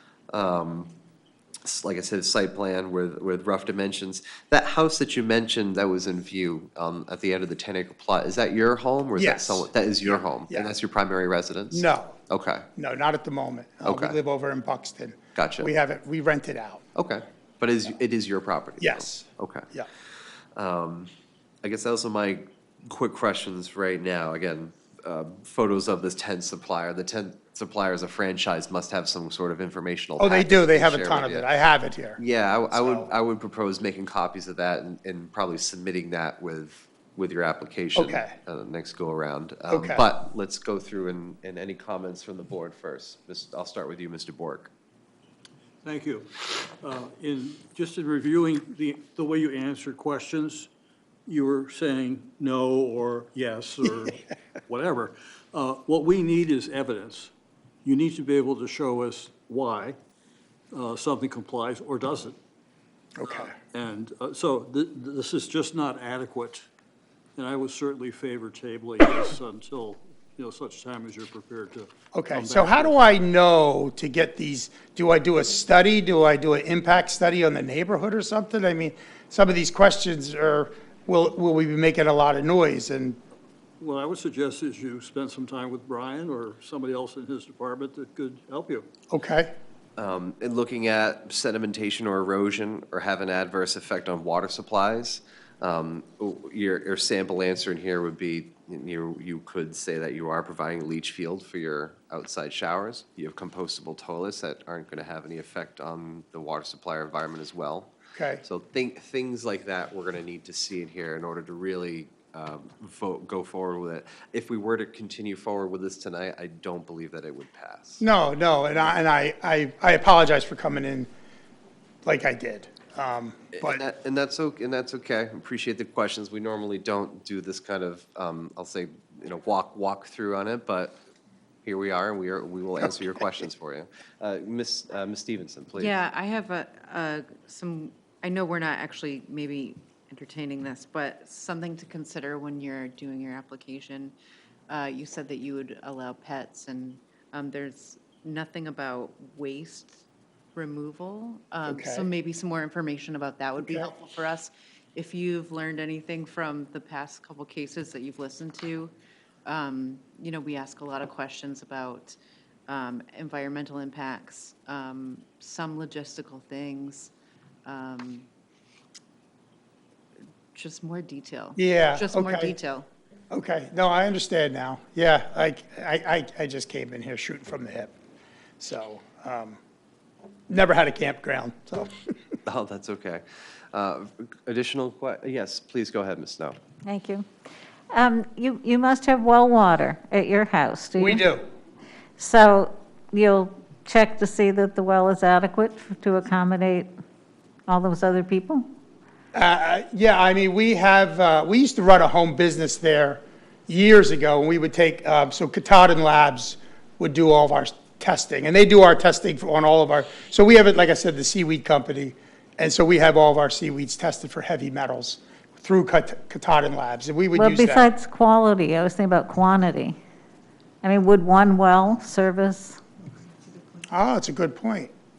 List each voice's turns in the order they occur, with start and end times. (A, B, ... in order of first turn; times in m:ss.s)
0:00.3-0:00.9 A
0:01.6-0:12.7 A
0:09.2-0:10.7 B
0:11.7-0:12.2 B
0:12.8-0:16.8 B
0:13.8-0:14.2 A
0:15.4-0:15.7 A
0:17.0-0:19.7 A
0:18.8-0:19.9 B
0:20.6-0:21.1 A
0:21.6-0:31.5 A
0:30.2-0:32.2 B
0:32.2-0:44.7 A
0:32.7-0:33.1 B
0:38.0-0:38.4 B
0:39.7-0:40.0 B
0:45.8-0:50.7 C
0:51.3-0:57.3 C
0:57.8-1:00.0 C
1:00.7-1:02.4 C
1:03.2-1:03.5 B
1:03.3-1:06.7 C
1:07.4-1:13.0 C
1:12.1-1:23.2 B
1:23.8-1:28.9 C
1:29.1-1:29.5 B
1:30.0-1:47.9 A
1:48.2-1:48.4 B
1:48.4-1:58.0 A
1:58.0-2:01.1 B
2:02.0-2:03.8 B
2:03.6-2:11.0 A
2:11.6-2:16.0 A
2:15.8-2:24.1 D
2:24.7-2:30.0 D
2:30.5-2:38.9 D
2:31.6-2:32.1 B
2:33.6-2:33.9 B
2:39.4-2:47.1 D
2:47.6-2:48.3 D
2:50.5-2:52.9 D
2:51.6-2:52.6 B
2:53.3-2:57.9 B
2:58.6-2:59.6 B
3:00.5-3:02.0 B
3:02.5-3:06.6 A
3:06.9-3:07.3 E
3:07.9-3:11.2 E
3:11.0-3:11.4 B
3:12.2-3:16.9 E
3:17.7-3:18.6 E
3:19.3-3:37.9 B
3:37.3-3:40.0 E
3:40.8-3:42.8 E
3:43.9-3:44.9 B